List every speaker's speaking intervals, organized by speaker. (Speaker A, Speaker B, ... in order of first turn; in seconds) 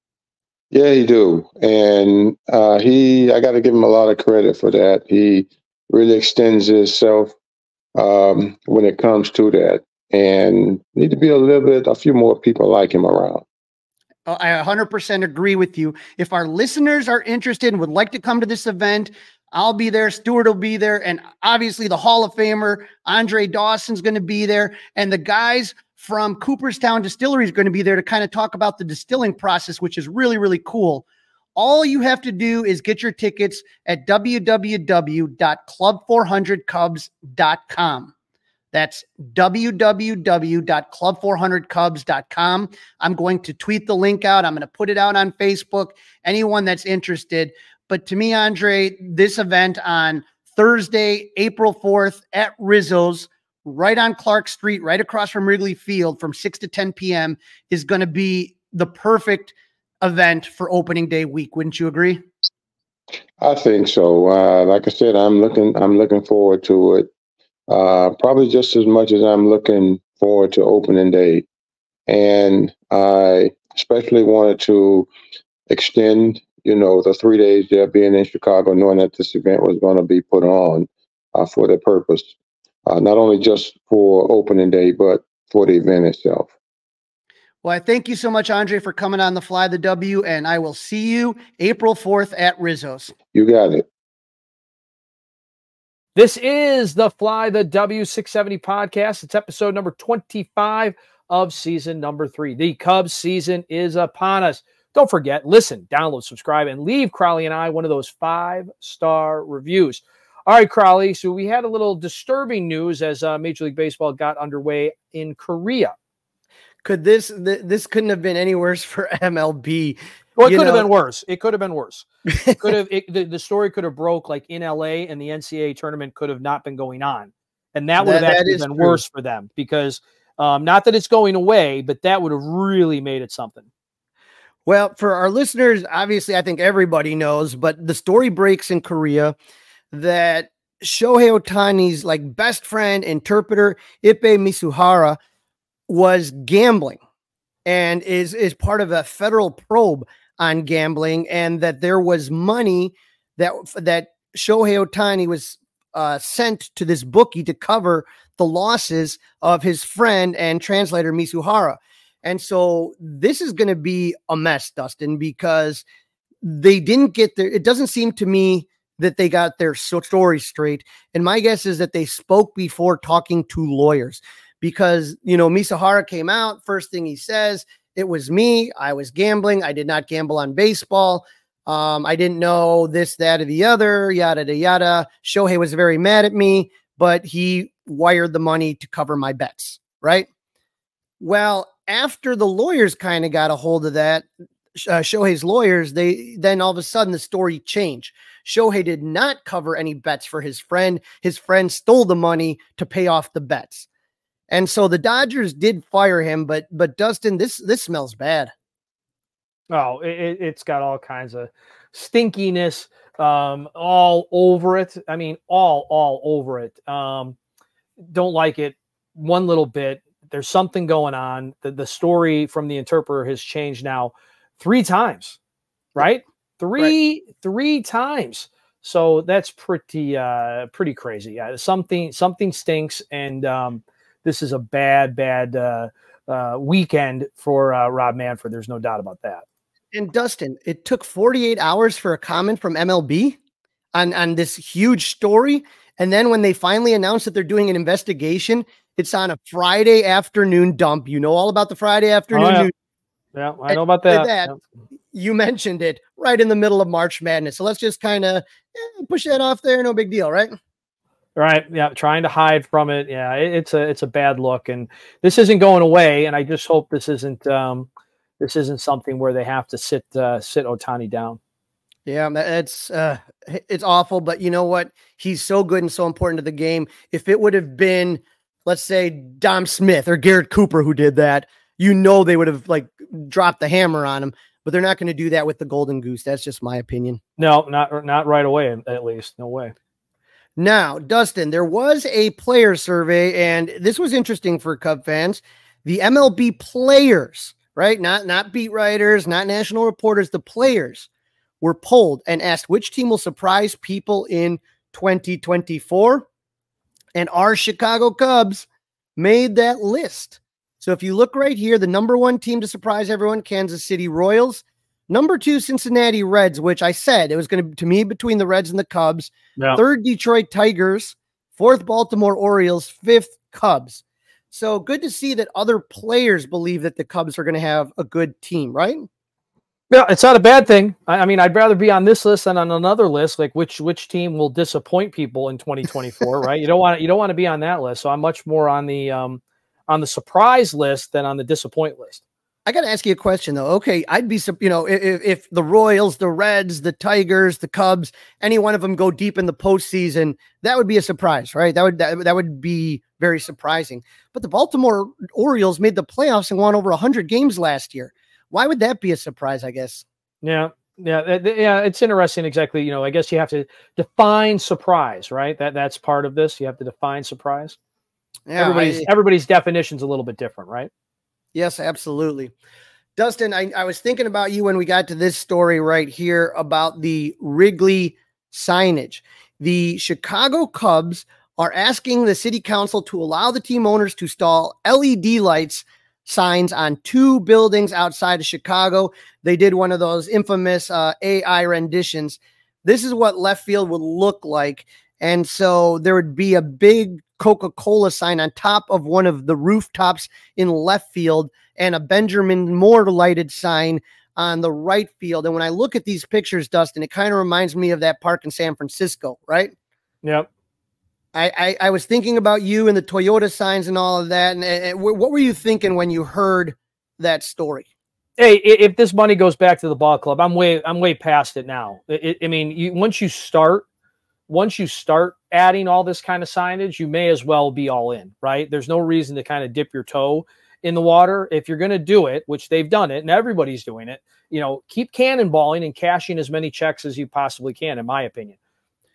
Speaker A: 0.7-7.3, 8.0-13.4, 63.4-67.1, 67.7-71.5, 72.1-75.1, 75.7-82.3, 82.9-86.5, 93.3-93.9
Speaker B: 14.3-31.1, 31.6-38.1, 38.7-62.2, 87.6-93.1, 116.8-120.9, 122.3-122.7, 128.0-129.0, 134.7-139.3, 139.9-145.2, 145.9-147.0, 147.7-165.8, 166.4-190.3, 191.2-203.9, 204.5-208.5, 239.9-243.4, 243.9-252.7, 253.7-254.6, 255.1-260.6, 272.1-287.2, 290.6-301.1, 301.6-306.3, 307.1-329.1, 342.7-360.1, 368.5-369.1, 371.6-372.5, 373.2-409.7, 411.3-417.9
Speaker C: 96.2-116.0, 120.4-122.1, 122.6-133.7, 209.7-217.4, 218.1-225.4, 226.0-239.4, 252.3-252.7, 253.3-254.6, 261.4-267.9, 268.4-271.4, 287.4-289.7, 319.6-319.8, 329.9-342.2, 360.4-367.8, 368.6-370.9, 410.2-410.5, 418.4-423.9, 424.5-438.6